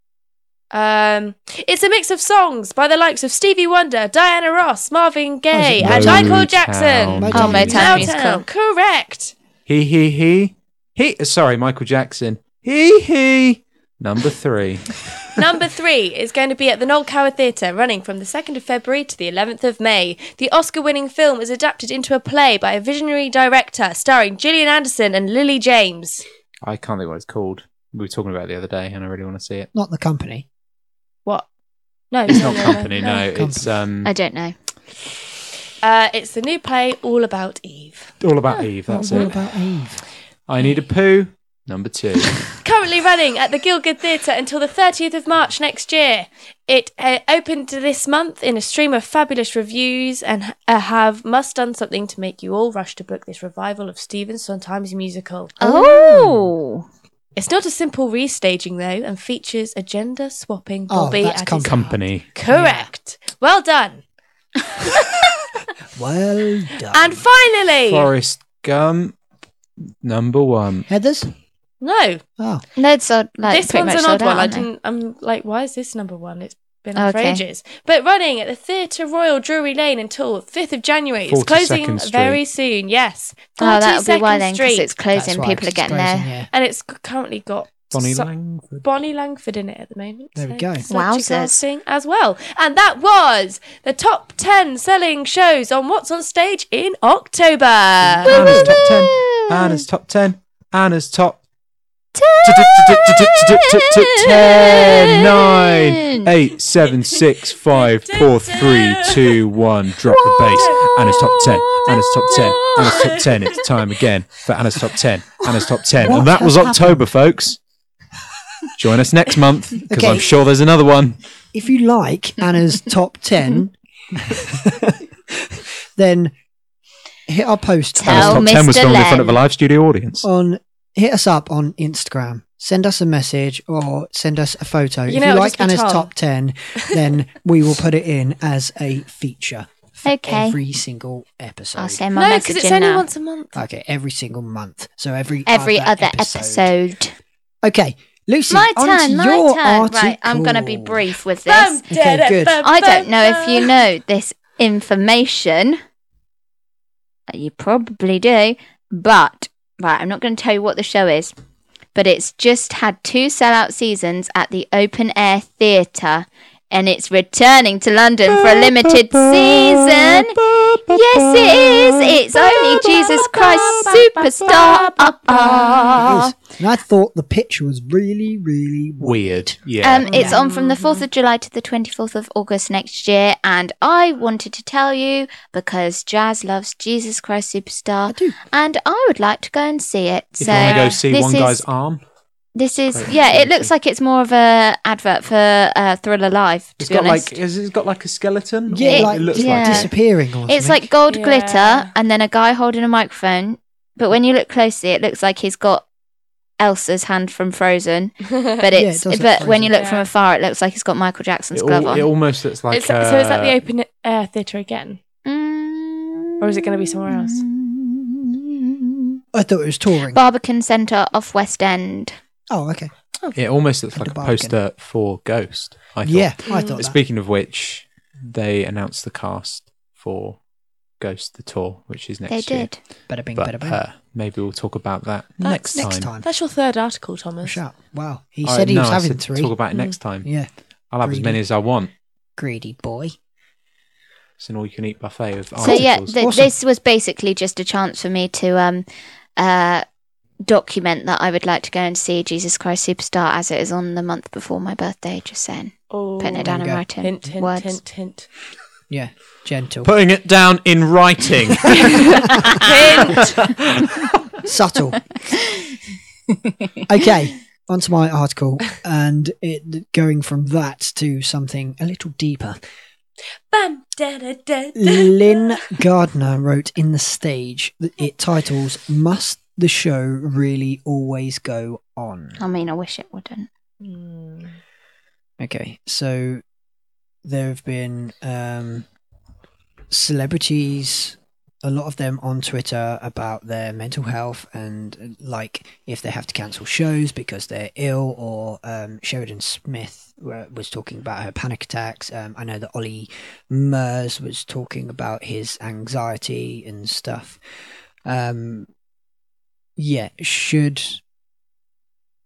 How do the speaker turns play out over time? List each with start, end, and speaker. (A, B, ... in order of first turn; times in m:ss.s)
0:00.7-0:09.3 A
0:05.5-0:06.4 B
0:05.8-0:08.1 C
0:07.2-0:08.1 B
0:07.3-0:08.4 D
0:09.6-0:15.2 C
0:15.3-0:26.2 A
0:26.6-0:29.7 C
0:29.7-0:30.4 B
0:32.1-0:33.2 A
0:32.3-0:34.1 C
0:33.3-0:33.7 B
0:34.0-0:34.5 D
0:35.8-0:39.3 A
0:38.2-0:39.3 C
0:38.9-0:40.0 B
0:40.5-0:42.4 C
0:42.6-0:55.6 A
0:55.6-0:56.8 D
0:55.6-0:56.5 B
0:57.4-1:04.0 A
1:00.9-1:01.8 B
1:01.6-1:02.3 C
1:02.5-1:02.9 B
1:05.9-1:07.2 B
1:06.9-1:08.1 A
1:07.8-1:09.2 C
1:10.0-1:10.9 C
1:10.9-1:11.3 B
1:11.8-1:12.2 A
1:12.4-1:12.6 B
1:12.8-1:14.7 D
1:13.4-1:24.9 A
1:17.0-1:17.4 D
1:21.3-1:22.4 C
1:23.6-1:26.3 D
1:25.1-1:26.5 B
1:26.5-1:28.3 A
1:27.9-1:28.8 C
1:28.8-1:38.4 A
1:30.4-1:30.8 B
1:30.9-1:31.6 D
1:38.0-1:38.8 B
1:38.2-1:41.4 C
1:38.4-1:39.8 D
1:42.2-1:46.3 D
1:42.4-1:57.6 C
1:47.2-1:49.4 A
1:50.3-1:53.7 A
1:56.0-1:57.0 B
1:58.8-2:01.2 C
1:59.9-2:00.3 B
2:01.5-2:06.3 B
2:07.3-2:08.5 B
2:08.0-2:09.4 D
2:08.0-2:10.2 C
2:10.2-2:22.0 B
2:15.1-2:16.1 A
2:20.0-2:20.6 D
2:21.8-2:23.0 D
2:22.1-2:23.6 A
2:23.5-2:26.7 B
2:25.5-2:27.2 D
2:27.6-2:31.0 B
2:28.5-2:31.8 D
2:31.4-2:33.8 A
2:31.9-2:32.6 B
2:32.6-2:35.8 D
2:37.3-2:41.3 D
2:41.9-2:56.3 D
2:48.3-2:52.2 C
2:52.7-2:56.1 A
2:56.0-2:59.5 B
2:59.0-3:00.2 C
2:59.8-3:11.6 D
3:00.1-3:00.4 B
3:00.1-3:01.0 A
3:08.1-3:08.4 B
3:10.4-3:12.0 C
3:10.4-3:11.0 A
3:12.5-3:17.4 D
3:12.9-3:13.7 C
3:16.8-3:19.9 C
3:18.7-3:20.9 B
3:18.8-3:19.9 D
3:20.5-3:25.8 D
3:21.1-3:21.9 A
3:26.6-3:32.1 D
3:28.7-3:29.8 B
3:29.7-3:30.1 A
3:31.5-3:33.6 C
3:32.7-3:35.0 A
3:35.2-3:38.9 D
3:36.4-3:37.4 A
3:39.3-3:40.2 B
3:40.1-3:42.2 D
3:42.5-3:42.9 B
3:43.3-3:50.4 C
3:43.9-3:44.6 B
3:46.0-3:47.0 B
3:46.4-3:46.8 A
3:51.0-3:52.8 C
3:52.3-3:52.8 D
3:53.1-3:53.8 B
3:53.3-3:56.1 C
3:55.4-3:57.6 A
3:55.7-3:56.3 B
3:57.4-3:59.5 B
3:58.4-4:00.3 C
4:00.1-4:00.5 B
4:00.9-4:01.9 C
4:01.0-4:01.4 B
4:02.4-4:03.2 B
4:04.4-4:06.2 C
4:05.6-4:09.8 D
4:05.6-4:06.5 B
4:10.4-4:17.8 D
4:15.9-4:18.3 A
4:16.4-4:16.8 B
4:18.9-4:19.9 B
4:19.8-4:22.4 C
4:22.6-4:23.4 A
4:23.0-4:24.0 C
4:24.4-4:25.2 B
4:26.8-4:32.6 B
4:33.5-4:35.6 A
4:34.7-4:42.4 B
4:42.4-4:43.5 D
4:43.8-4:44.6 A
4:45.4-4:46.4 B
4:47.2-4:48.8 B
4:49.9-5:07.4 B
5:08.0-5:08.7 B
5:09.8-5:11.0 B